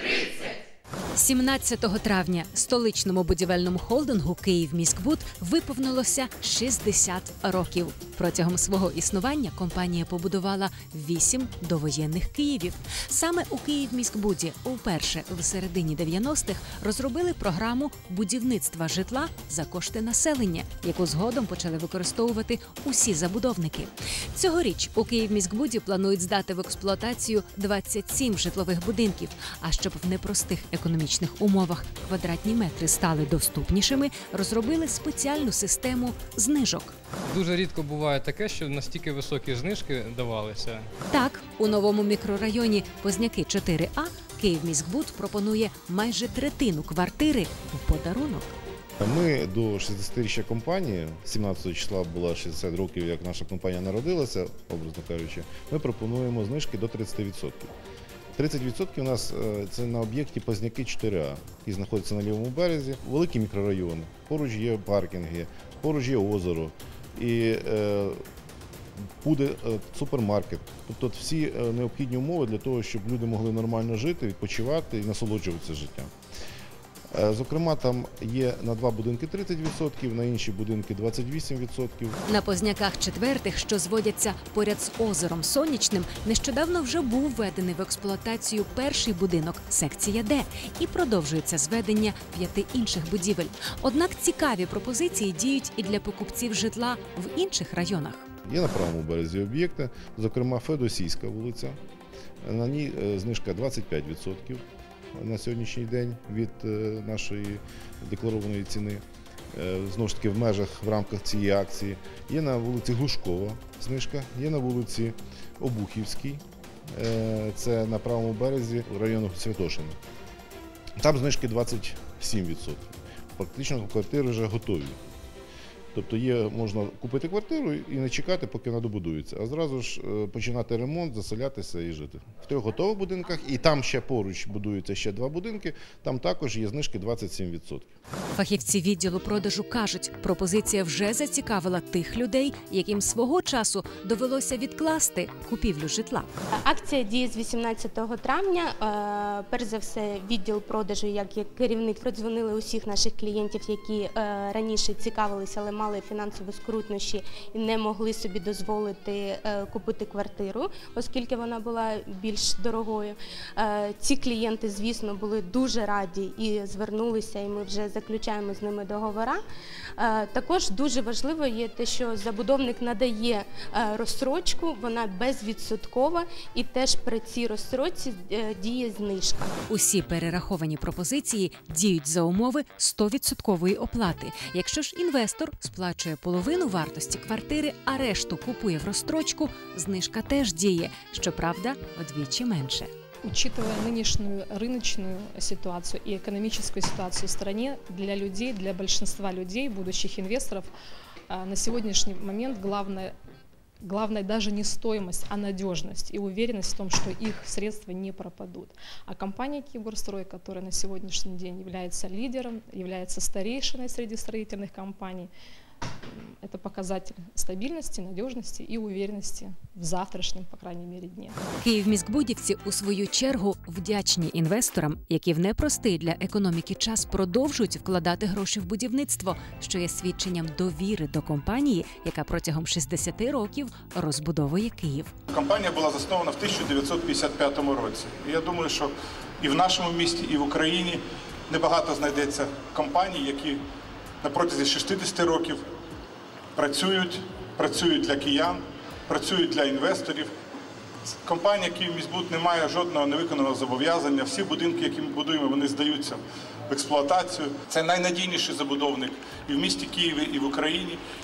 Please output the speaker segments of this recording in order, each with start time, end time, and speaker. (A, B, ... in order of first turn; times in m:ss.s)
0:01.1-0:37.0 A
0:37.2-0:40.9 B
0:41.1-0:48.5 A
0:49.0-0:57.7 C
0:58.4-1:08.2 C
1:09.2-1:16.1 C
1:17.1-1:22.2 C
1:22.2-1:38.3 A
1:38.4-1:41.8 C
1:42.4-1:44.6 C
1:45.1-2:00.0 C
2:01.0-2:05.0 C
2:05.9-2:17.9 C
2:18.3-2:26.3 A
2:26.6-2:49.4 D
2:50.0-2:59.5 D
2:59.7-3:12.9 A
3:13.2-3:20.7 E
3:21.3-3:23.1 E
3:23.8-3:35.3 E
3:36.1-3:41.4 E
3:41.6-3:55.1 A
3:55.3-4:03.6 F
4:04.2-4:05.6 F
4:06.6-4:10.3 F
4:11.2-4:21.0 F